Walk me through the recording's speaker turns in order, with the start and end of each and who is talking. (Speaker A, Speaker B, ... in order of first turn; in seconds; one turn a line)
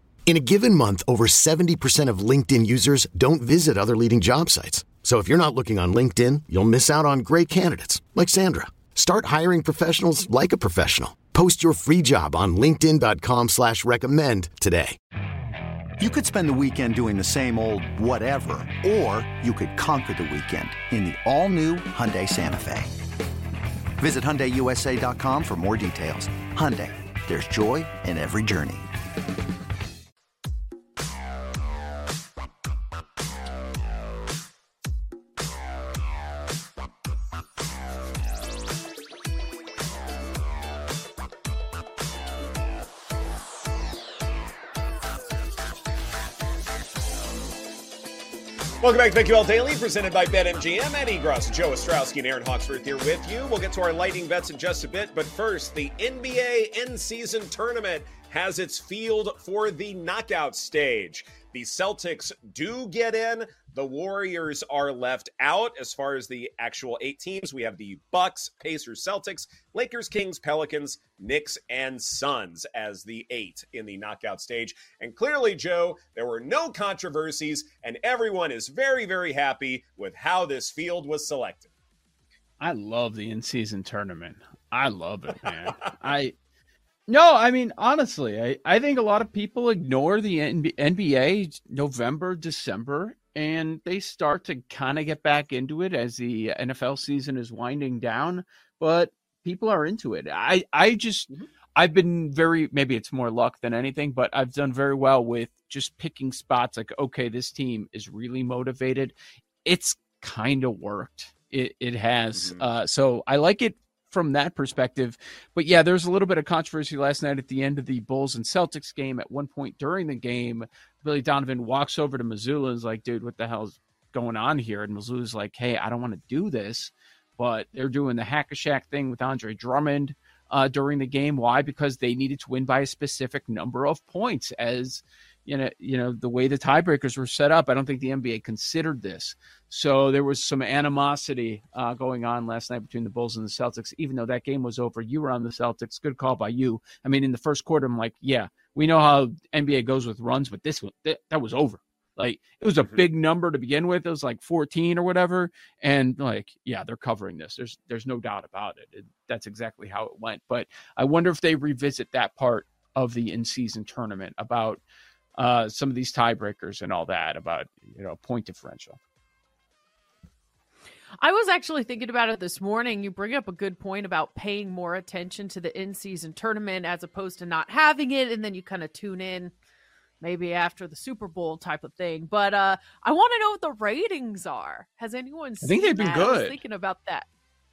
Speaker A: 0.3-15.0
Speaker B: 16.0-22.9
Speaker B: 24.0-28.9
Speaker C: 48.8-81.7
Speaker D: 82.6-86.3
Speaker C: 85.4-85.8
Speaker D: 87.1-164.8
Speaker C: 112.3-112.6
Speaker C: 152.8-153.1
Speaker D: 165.4-169.0
Speaker E: 171.2-179.6
Speaker E: 180.2-187.3
Speaker D: 185.6-186.6